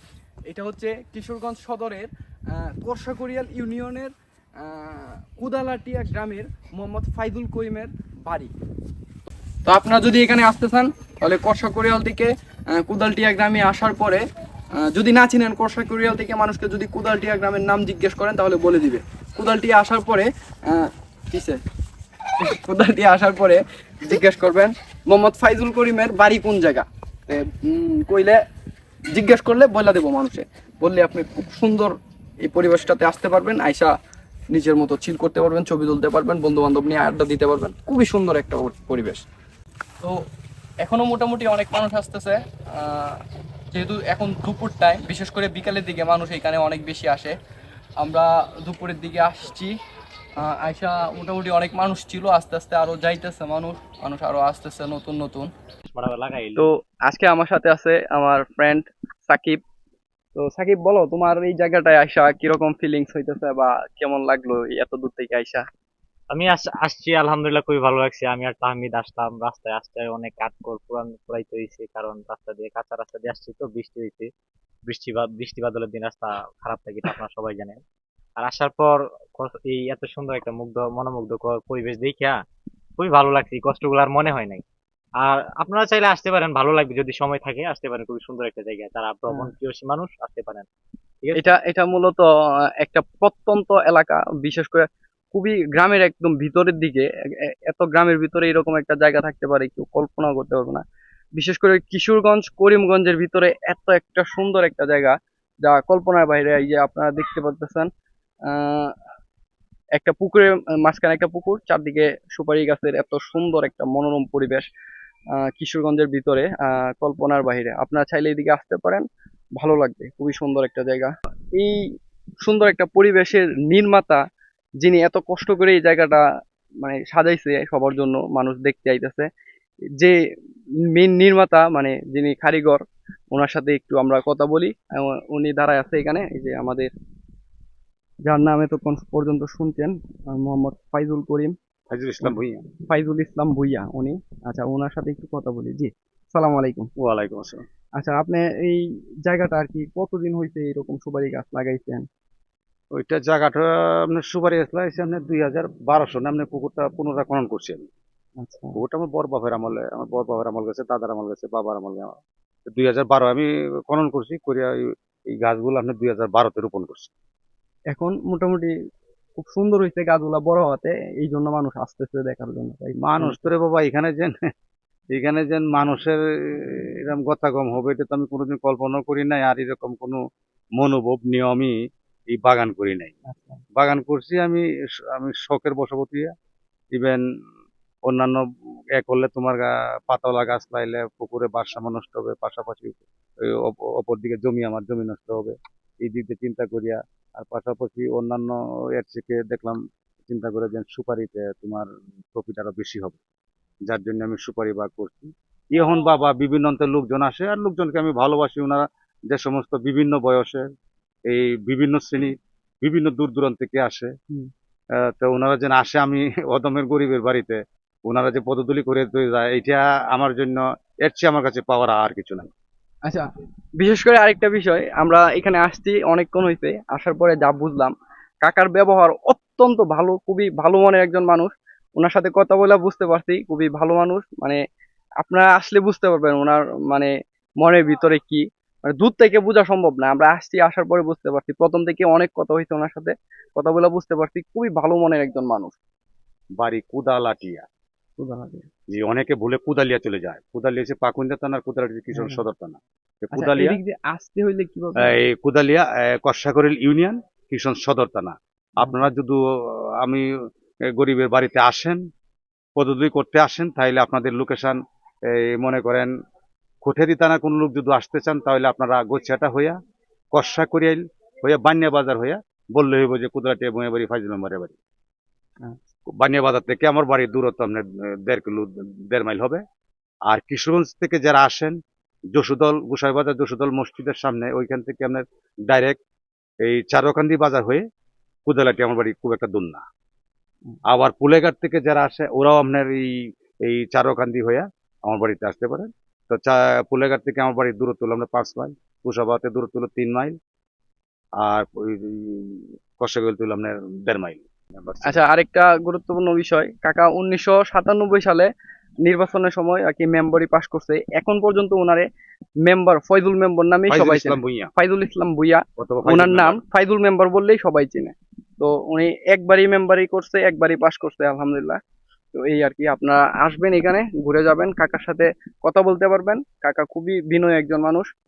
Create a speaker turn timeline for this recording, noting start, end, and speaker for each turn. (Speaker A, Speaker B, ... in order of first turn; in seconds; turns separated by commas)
Speaker A: 0.5-8.5, Speaker A: 9.7-14.2, Speaker A: 14.8-21.6, Speaker A: 22.4-28.4, Speaker A: 29.1-31.9, Speaker A: 32.5-33.9, Speaker A: 34.5-39.2, Speaker A: 40.8-43.2, Speaker A: 43.7-47.3, Speaker A: 48.0-49.7, Speaker A: 50.4-55.5, Speaker B: 55.9-56.7, Speaker A: 56.5-59.6, Speaker A: 60.3-65.6, Speaker B: 66.3-74.3, Speaker B: 74.9-77.8, Speaker B: 78.4-82.4, Speaker B: 83.0-84.6, Speaker B: 85.2-90.7, Speaker B: 91.2-91.6, Speaker A: 91.3-92.3, Speaker A: 92.8-97.0, Speaker A: 97.7-100.8, Speaker A: 101.4-107.9, Speaker A: 108.5-108.9, Speaker A: 110.0-114.7, Speaker A: 115.5-119.0, Speaker A: 119.6-121.8, Speaker A: 122.4-124.2, Speaker A: 124.8-126.2, Speaker A: 126.8-129.3, Speaker A: 130.9-136.9, Speaker A: 138.2-141.5, Speaker C: 141.9-142.7, Speaker A: 142.2-146.9, Speaker C: 147.0-147.6, Speaker A: 148.0-152.0, Speaker C: 152.9-157.9, Speaker A: 158.4-158.8, Speaker C: 158.8-162.1, Speaker C: 162.7-167.1, Speaker A: 167.9-168.7, Speaker A: 169.4-173.5, Speaker C: 173.0-174.4, Speaker C: 175.1-180.2, Speaker C: 180.8-181.7, Speaker C: 182.3-183.1, Speaker A: 183.3-183.6, Speaker C: 183.8-186.3, Speaker C: 186.9-187.2, Speaker C: 188.1-188.4, Speaker C: 188.9-203.2, Speaker C: 203.9-210.6, Speaker C: 211.3-214.1, Speaker C: 215.1-222.5, Speaker A: 223.8-234.6, Speaker A: 235.2-245.8, Speaker C: 246.6-247.6, Speaker A: 248.2-248.7, Speaker C: 248.9-253.8, Speaker A: 252.1-252.4, Speaker A: 253.3-255.2, Speaker C: 255.0-260.3, Speaker C: 260.9-262.0, Speaker C: 262.8-266.1, Speaker C: 266.8-269.8, Speaker C: 270.3-274.8, Speaker C: 276.1-279.6, Speaker C: 280.3-281.8, Speaker C: 282.3-286.0, Speaker C: 286.6-287.8, Speaker C: 288.5-289.8, Speaker C: 290.9-300.4, Speaker C: 301.4-305.2, Speaker A: 305.0-308.5, Speaker A: 309.0-312.1, Speaker A: 312.6-321.8, Speaker C: 313.9-314.7, Speaker C: 315.8-316.6, Speaker A: 322.3-328.1